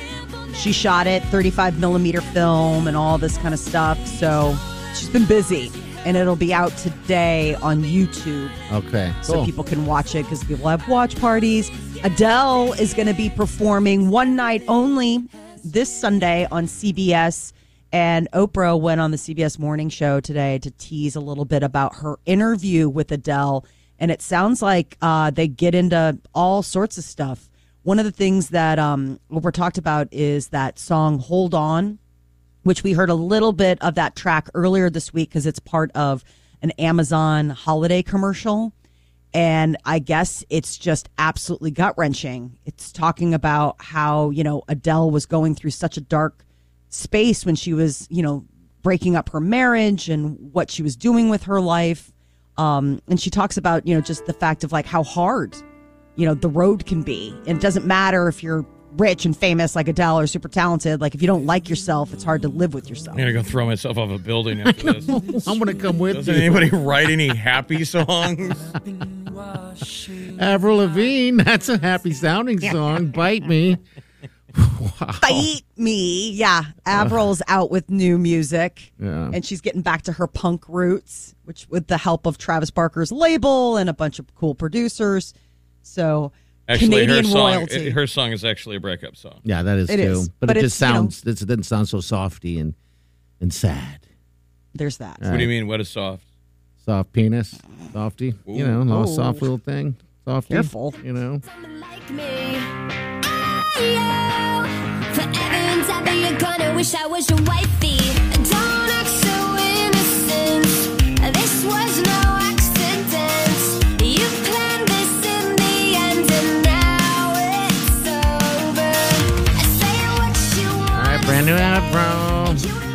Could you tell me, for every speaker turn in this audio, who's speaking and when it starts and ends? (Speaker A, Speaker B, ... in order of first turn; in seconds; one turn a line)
Speaker A: 0.5-8.5
Speaker B: 8.7-9.5
Speaker A: 9.2-32.0
Speaker A: 32.6-38.7
Speaker A: 39.3-55.6
Speaker A: 56.2-63.2
Speaker C: 63.1-65.2
Speaker B: 64.7-66.8
Speaker C: 66.1-68.7
Speaker B: 70.2-73.8
Speaker B: 74.5-75.5
Speaker A: 75.2-85.3
Speaker B: 76.9-77.2
Speaker B: 79.0-79.4
Speaker A: 85.8-88.0
Speaker C: 86.7-89.4
Speaker B: 89.4-92.7
Speaker A: 89.9-91.1
Speaker B: 93.4-94.0
Speaker A: 94.7-95.2
Speaker B: 95.2-95.5
Speaker C: 95.3-96.2
Speaker B: 96.8-101.4
Speaker C: 98.5-98.8
Speaker A: 98.9-99.4
Speaker A: 100.5-101.0
Speaker D: 101.9-102.6
Speaker D: 103.8-104.5
Speaker D: 105.2-118.9
Speaker D: 119.6-121.0
Speaker B: 120.9-122.7